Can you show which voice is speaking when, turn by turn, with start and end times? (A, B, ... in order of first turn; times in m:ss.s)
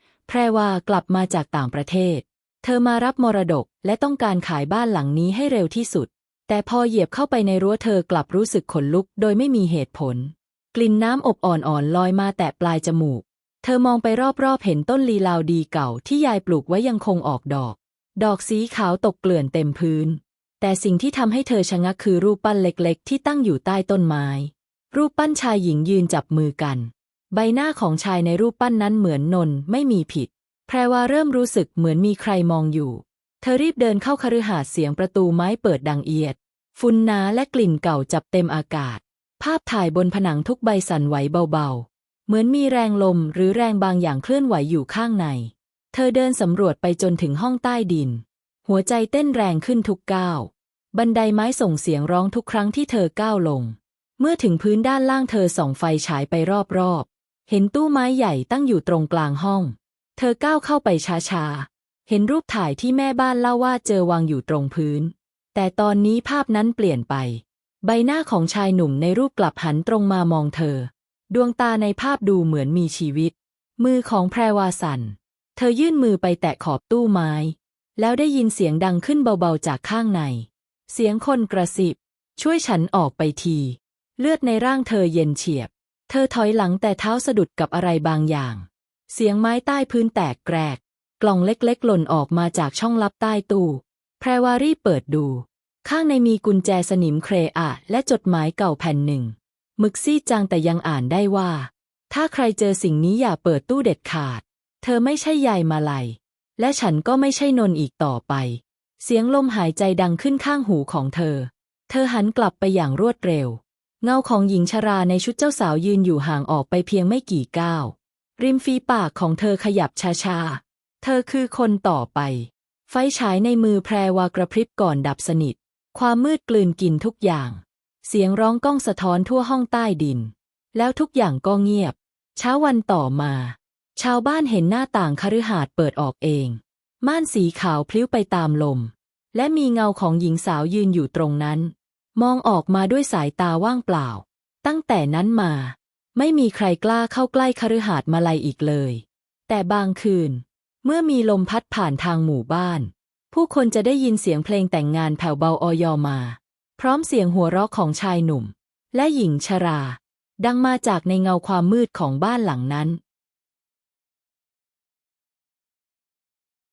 0:00.3-2:43.0 A